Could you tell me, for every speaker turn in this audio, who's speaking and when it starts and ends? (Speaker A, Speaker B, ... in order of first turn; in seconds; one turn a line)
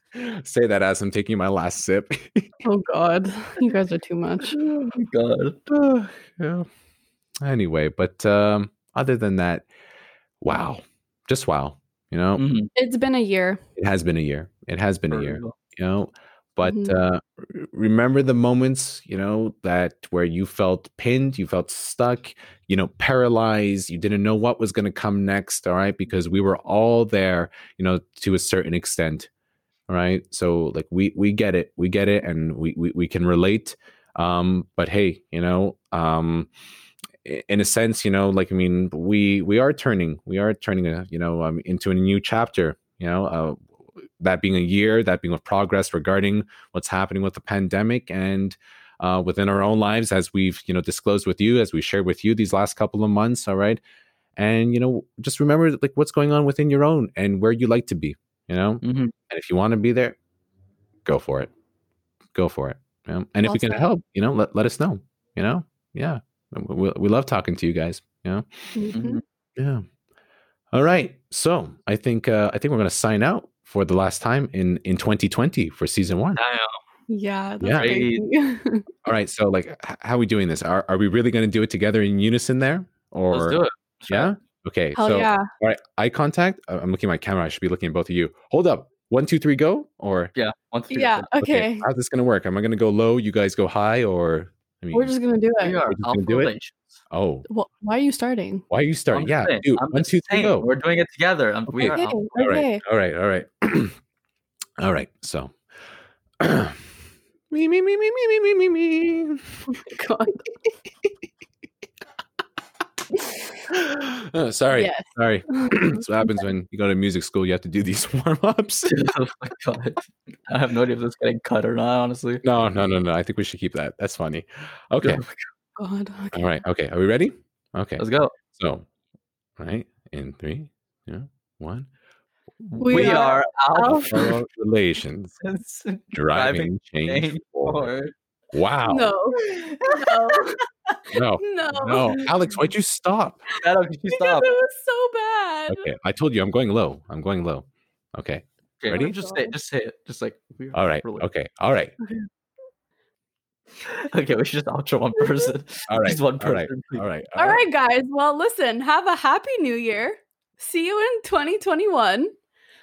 Speaker A: 0.1-2.5
Speaker B: 2.6-4.6
Speaker C: 4.5-5.6
Speaker A: 5.7-6.7
Speaker A: 7.4-9.7
Speaker A: 10.4-12.4
Speaker C: 12.4-12.7
Speaker B: 12.8-13.6
Speaker A: 13.8-29.3
Speaker C: 15.1-15.5
Speaker B: 16.6-17.0
Speaker A: 29.9-36.5
Speaker A: 37.2-43.6
Speaker A: 44.2-53.8
Speaker A: 54.4-60.2
Speaker C: 58.8-59.1
Speaker A: 61.0-61.5
Speaker A: 62.3-68.5
Speaker B: 63.5-63.9
Speaker B: 68.8-69.2
Speaker C: 68.9-69.2
Speaker A: 69.6-69.8
Speaker A: 70.7-76.4
Speaker C: 76.4-76.8
Speaker B: 77.1-78.9
Speaker A: 77.6-78.0
Speaker C: 77.8-78.2
Speaker A: 79.0-90.3
Speaker C: 83.3-84.3
Speaker B: 85.0-85.5
Speaker C: 90.3-91.3
Speaker B: 90.9-91.9
Speaker A: 91.4-95.1
Speaker B: 94.9-95.8
Speaker C: 95.6-96.9
Speaker A: 95.9-96.5
Speaker A: 97.1-97.5
Speaker B: 97.5-98.7
Speaker A: 98.7-100.7
Speaker C: 99.1-102.2
Speaker A: 101.7-104.0
Speaker B: 102.0-102.8
Speaker A: 104.8-105.5
Speaker A: 106.4-106.8
Speaker A: 107.5-109.5
Speaker B: 109.7-110.7
Speaker A: 113.7-119.1
Speaker B: 114.8-116.4
Speaker C: 118.9-122.4
Speaker A: 122.4-125.2
Speaker C: 125.0-125.5
Speaker B: 125.8-126.5
Speaker A: 126.3-128.0
Speaker C: 128.0-128.3
Speaker A: 128.6-128.9
Speaker A: 129.6-131.9
Speaker A: 132.6-133.2
Speaker B: 132.8-134.3
Speaker C: 132.9-134.4
Speaker A: 134.1-135.3
Speaker C: 135.4-138.1
Speaker A: 136.1-137.9
Speaker A: 138.5-139.1
Speaker B: 138.9-139.4
Speaker C: 139.4-141.0
Speaker B: 139.9-140.6
Speaker A: 141.1-143.4
Speaker B: 141.4-142.2
Speaker C: 143.6-144.5
Speaker B: 144.1-145.9
Speaker A: 145.7-149.1
Speaker C: 148.8-151.2
Speaker B: 148.9-149.5
Speaker A: 150.7-152.0
Speaker C: 153.8-157.0
Speaker B: 155.2-155.5
Speaker A: 155.9-157.6
Speaker B: 157.4-162.3